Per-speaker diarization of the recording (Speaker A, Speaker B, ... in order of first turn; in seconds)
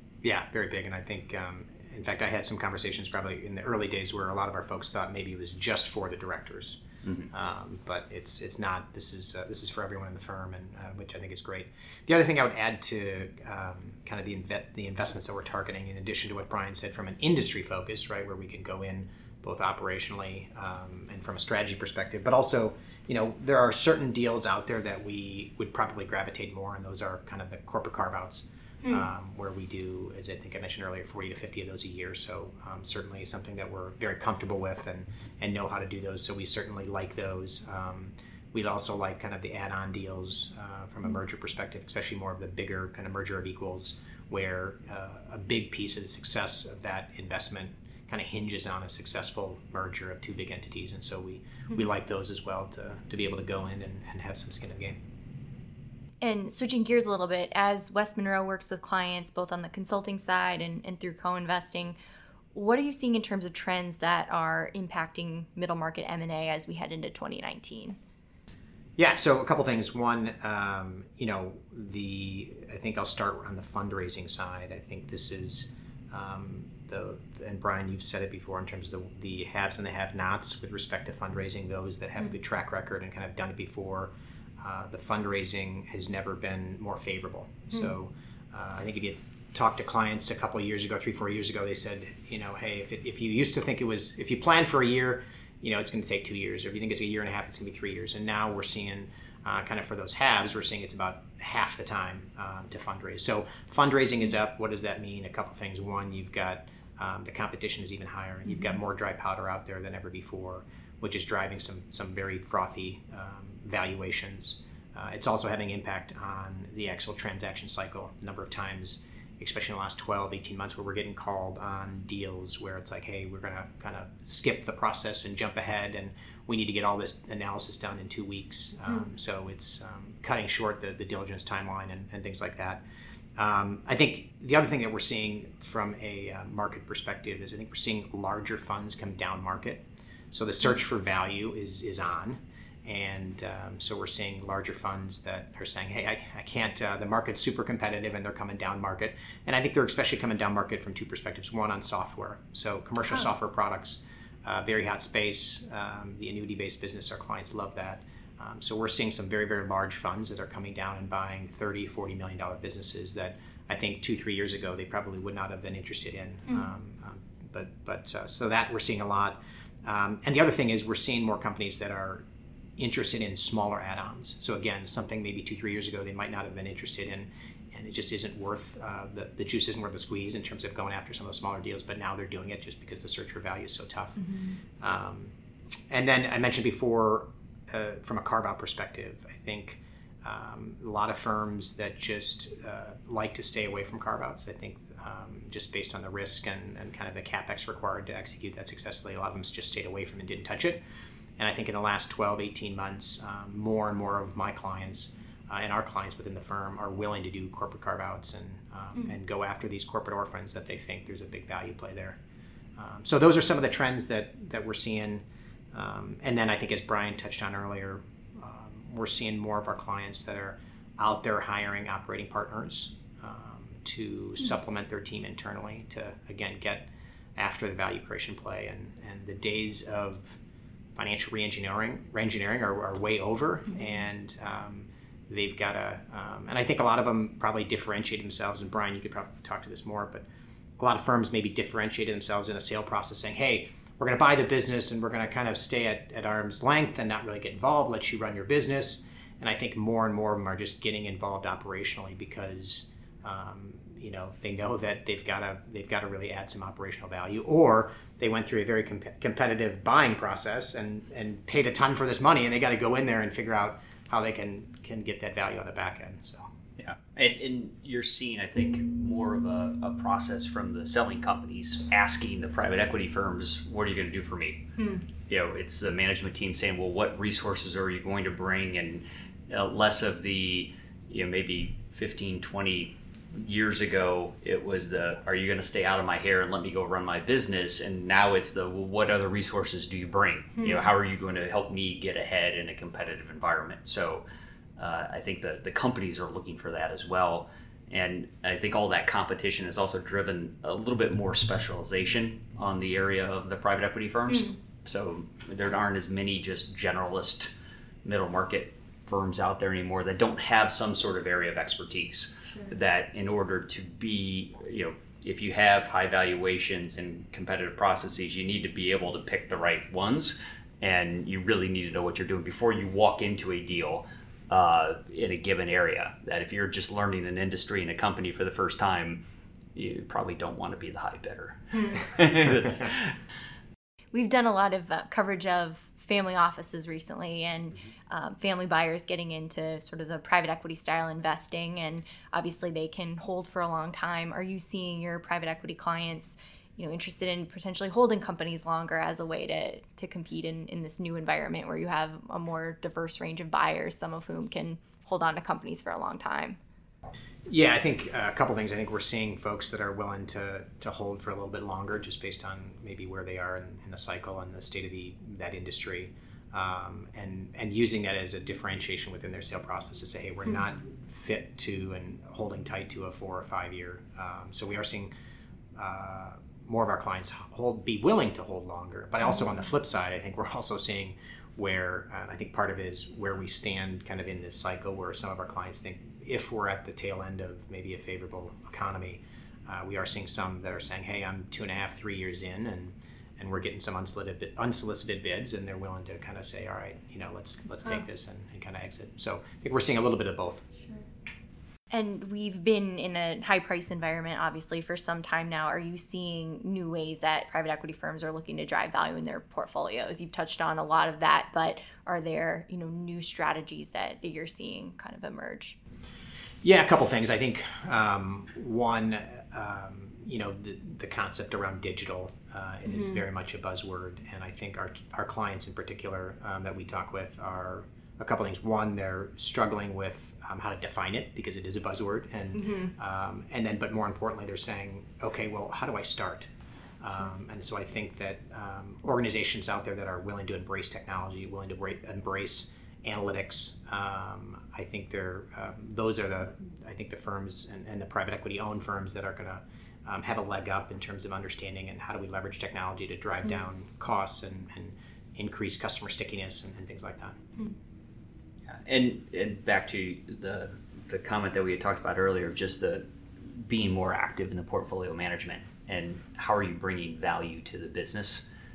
Speaker A: 0.2-55.0, 69.0-132.8, 133.4-172.2, 172.8-185.3, 185.9-200.8, 201.4-212.2, 212.8-230.4, 230.9-240.3, 240.8-266.5, 357.5-375.1, 375.8-400.7, 416.6-457.4
Speaker B: 7.0-7.3, 266.8-274.7, 275.3-294.2, 294.8-307.5, 308.0-329.2, 329.8-333.2, 458.7-468.5
Speaker C: 56.2-62.0, 62.5-68.0, 184.3-184.6, 274.8-275.0, 290.6-290.8, 304.3-304.5, 312.4-312.7, 334.1-356.6, 401.9-415.8, 422.9-423.2, 432.6-432.9